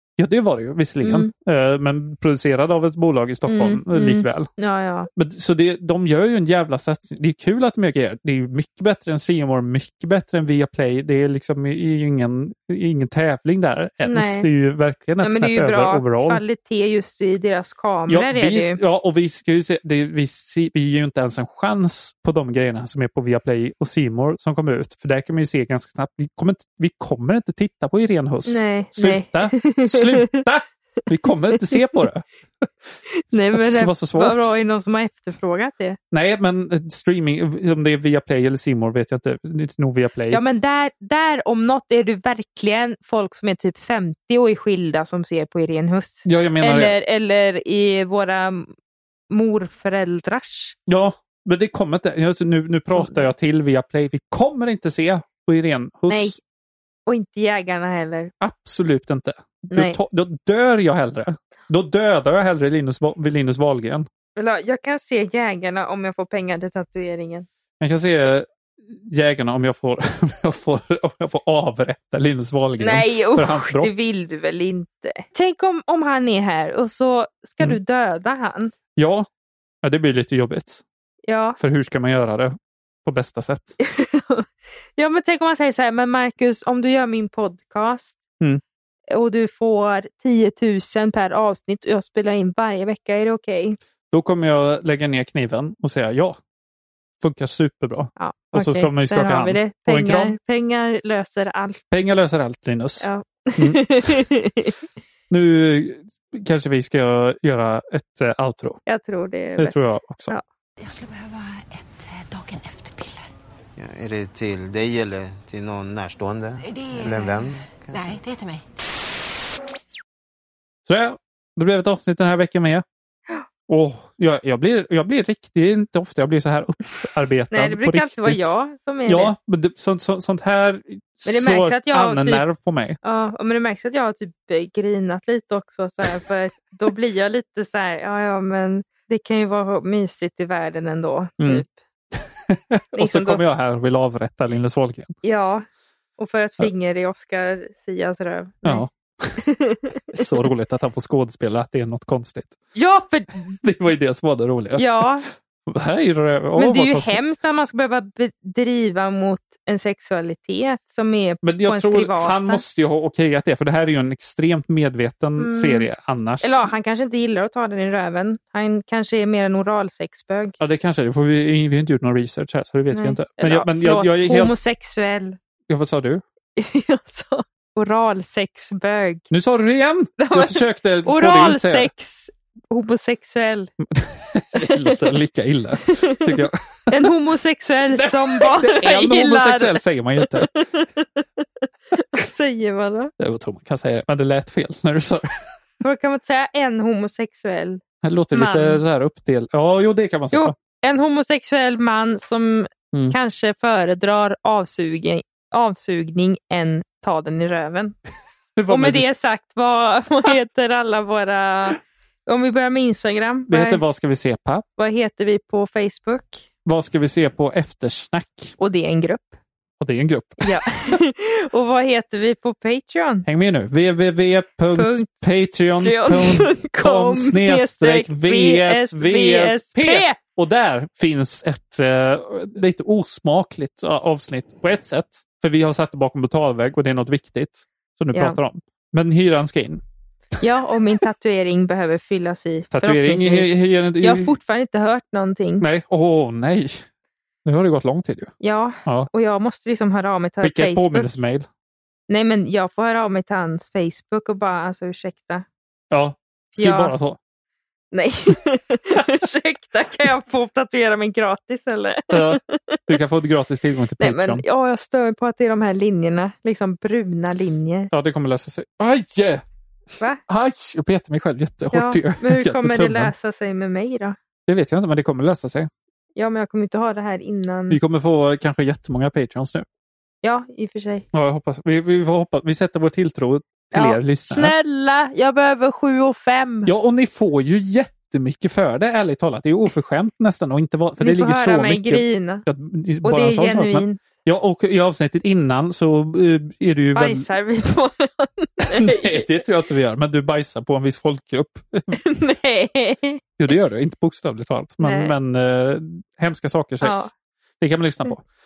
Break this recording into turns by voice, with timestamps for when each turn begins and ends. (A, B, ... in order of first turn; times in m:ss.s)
0:00.2-0:04.5 A
0:01.0-0:01.3 B
0:03.5-0:05.1 B
0:05.1-0:16.4 A
0:14.0-0:14.5 B
0:15.2-0:18.8 B
0:18.1-0:32.9 A
0:28.4-0:30.4 B
0:33.3-0:36.0 B
0:33.5-0:34.5 A
0:36.1-0:40.4 A
0:40.3-0:48.7 B
0:46.2-0:46.9 A
0:49.3-0:50.7 B
0:50.9-0:56.4 A
0:53.0-0:53.3 B
0:56.1-0:56.4 B
0:57.1-0:58.3 B
0:58.4-1:04.0 A
0:59.7-1:00.0 B
1:04.4-1:07.5 B
1:07.8-1:14.0 A
1:12.8-1:18.7 B
1:19.0-1:19.3 A
1:19.8-1:20.8 A
1:21.3-1:21.6 B
1:21.6-1:23.8 A
1:23.8-1:24.4 B
1:25.0-1:28.2 B
1:29.1-1:33.8 B
1:34.1-1:36.4 A
1:37.2-1:40.3 A
1:38.2-1:41.8 B
1:41.9-1:43.1 A
1:43.0-1:44.7 B
1:43.6-1:44.2 A
1:45.3-1:48.8 A
1:48.9-1:50.4 B
1:49.6-1:50.3 A
1:50.8-1:53.3 C
1:53.8-1:58.2 D
1:56.7-1:58.6 C
2:00.8-2:02.8 A
2:03.7-2:08.5 A
2:07.5-2:09.3 B
2:09.1-2:13.0 A
2:11.2-2:12.4 B
2:13.0-2:21.7 B
2:21.4-2:25.1 A
2:22.9-2:23.4 B
2:25.2-2:25.6 B
2:26.2-2:28.8 B
2:28.6-2:29.4 A
2:29.4-2:30.2 B
2:30.1-2:32.6 A
2:32.8-2:33.6 B
2:33.6-2:35.1 A
2:34.8-2:35.2 B
2:35.6-2:37.2 A
2:36.6-2:42.6 B
2:41.4-2:46.7 A
2:45.4-2:45.9 B
2:46.4-2:50.6 B
2:50.6-2:54.6 A
2:52.9-2:55.4 B
2:55.7-2:56.2 A
2:56.6-2:59.2 B
2:59.3-3:01.9 A
3:00.2-3:03.7 B
3:03.9-3:07.1 A
3:04.6-3:05.0 B
3:05.9-3:06.2 B
3:06.9-3:13.1 B
3:07.9-3:10.5 A
3:13.2-3:15.3 A
3:15.8-3:17.8 B
3:18.0-3:20.5 A
3:18.3-3:18.8 B
3:20.3-3:28.0 B
3:28.6-3:29.1 A
3:28.7-3:33.8 B
3:33.5-3:34.6 A
3:34.8-3:36.4 B
3:36.6-3:38.5 A
3:38.6-3:39.4 B
3:39.8-3:41.0 A
3:40.4-3:43.2 B
3:43.2-3:59.8 A
3:44.7-3:45.1 B
3:45.8-3:50.2 B
3:58.1-3:58.4 B
4:00.4-4:05.6 B
4:02.7-4:04.3 A
4:05.6-4:06.8 A
4:07.4-4:08.3 A
4:08.4-4:11.1 B
4:10.4-4:11.5 A
4:12.1-4:15.4 B
4:15.9-4:17.2 A
4:16.5-4:16.9 B
4:17.9-4:22.8 B
4:22.1-4:24.4 A
4:24.0-4:27.9 B
4:27.9-4:29.4 A
4:30.3-4:33.1 A
4:31.7-4:34.2 B
4:34.5-4:35.7 A
4:36.2-4:37.8 B
4:37.7-4:39.6 A
4:40.2-4:41.0 B
4:41.1-4:44.5 A
4:43.7-4:46.7 B
4:46.6-4:57.2 A
4:51.0-4:52.4 B
4:53.0-4:54.0 B
4:56.9-4:59.2 B
4:58.6-5:02.0 A
5:01.9-5:03.2 B
5:03.4-5:07.1 A
5:04.8-5:05.1 B
5:06.8-5:07.1 B
5:07.6-5:08.2 A